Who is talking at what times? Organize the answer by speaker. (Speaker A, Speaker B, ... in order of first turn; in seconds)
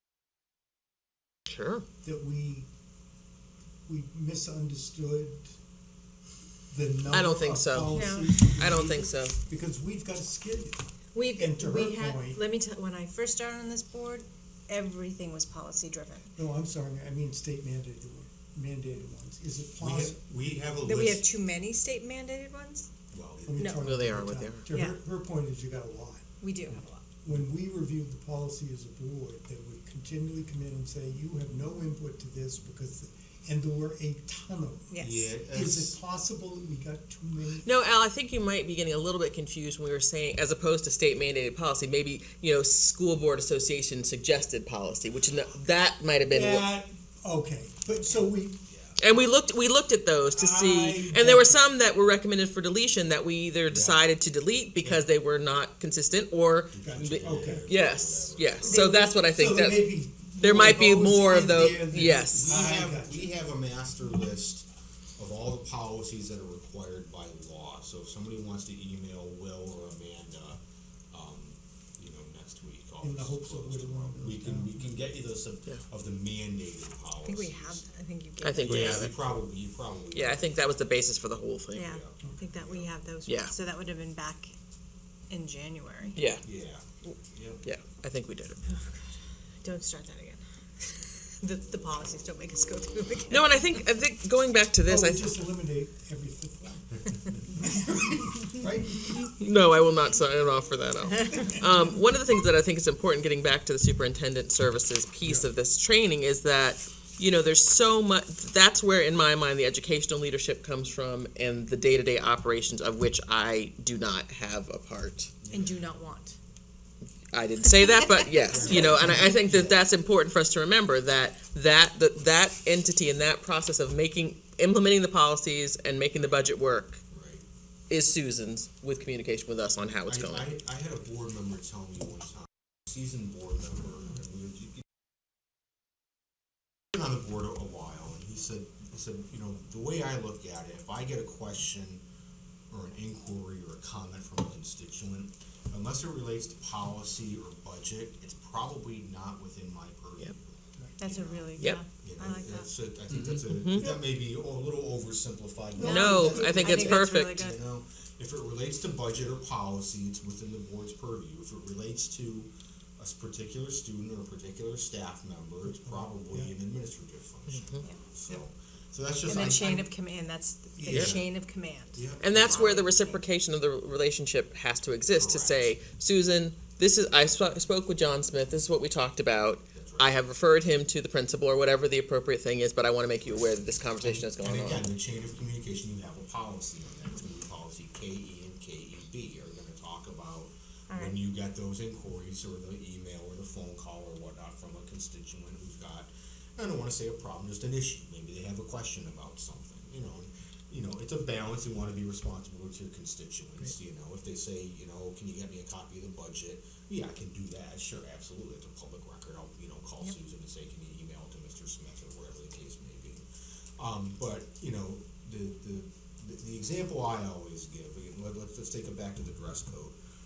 Speaker A: 1.5-1.9, 7.1-9.3, 23.7-24.7, 37.6-46.7, 49.0-62.5, 78.4-79.2, 80.1-81.9, 83.3-83.5, 86.2-86.4, 87.0-88.6, 93.3-95.5, 99.1-115.3, 117.3-127.0, 127.9-130.5, 153.4-153.9, 155.8-157.4, 170.9-171.2, 172.2-184.9
Speaker B: 2.0-2.7, 3.9-5.5, 6.7-10.8, 11.3-12.4, 16.4-20.2, 23.4-37.7, 46.3-48.6, 50.3-51.6, 56.8-57.7, 58.8-63.3, 73.0-74.9, 94.9-99.2, 155.8-156.6, 170.8-171.1
Speaker C: 7.9-8.3, 11.2-16.3, 20.9-22.9, 24.7-25.0, 26.4-27.0, 34.9-35.3, 58.7-59.2, 77.2-79.1, 81.7-84.5, 85.3-86.2, 88.7-89.1, 89.6-93.5, 115.5-116.4, 118.5-119.1, 151.0-152.7, 155.8-157.6, 169.2-173.2, 190.9-191.2
Speaker D: 19.8-21.3, 23.1-23.8, 35.0-36.0, 45.1-45.5, 48.7-49.0, 53.7-54.0, 56.7-59.0, 62.0-70.6, 71.1-77.9, 78.6-81.0, 81.8-82.9, 86.4-87.6, 115.4-115.8, 118.4-119.8, 127.1-127.5, 130.1-134.8, 136.9-142.0, 142.7-169.9, 170.9-171.2, 171.9-172.8, 175.1-175.8, 179.7-180.1, 184.0-213.2, 213.8-219.9